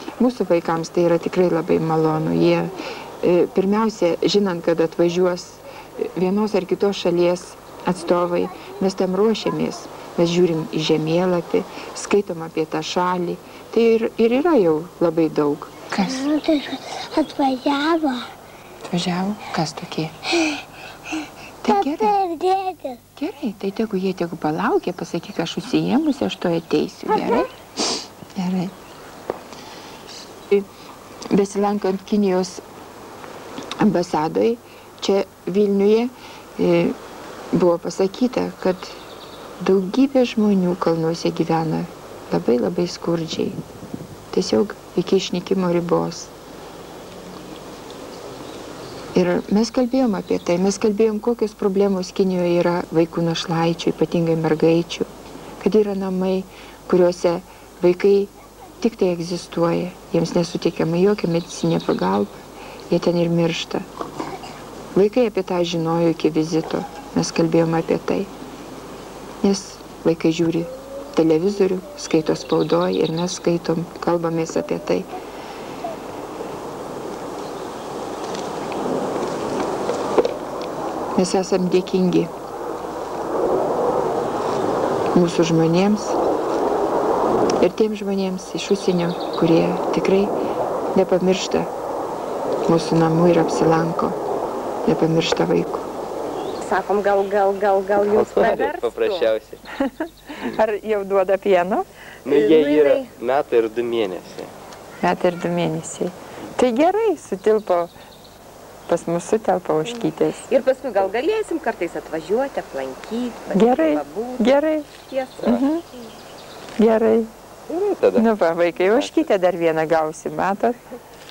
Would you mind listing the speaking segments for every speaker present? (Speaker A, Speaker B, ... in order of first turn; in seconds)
Speaker A: 0.2-16.3, 18.9-20.1, 21.6-22.1, 23.1-27.5, 28.4-28.7, 31.3-32.6, 33.8-37.0, 37.5-39.0, 39.6-43.6, 44.3-46.3, 49.1-55.1, 55.6-62.4, 62.9-63.9, 64.9-68.3, 69.4-75.1, 81.2-82.3, 85.1-86.1, 87.6-90.3, 90.9-91.7, 92.7-94.2, 94.8-95.8, 100.5-101.8, 105.0-107.9, 108.9-110.5, 113.5-114.9, 115.4-115.8, 116.8-117.3, 118.1-120.8
Speaker B: 16.1-18.2, 21.7-23.0
Speaker C: 96.7-99.1, 102.4-103.0, 110.5-114.4, 115.1-115.4
Speaker D: 98.0-99.6, 102.2-104.5, 117.7-118.3, 118.9-119.3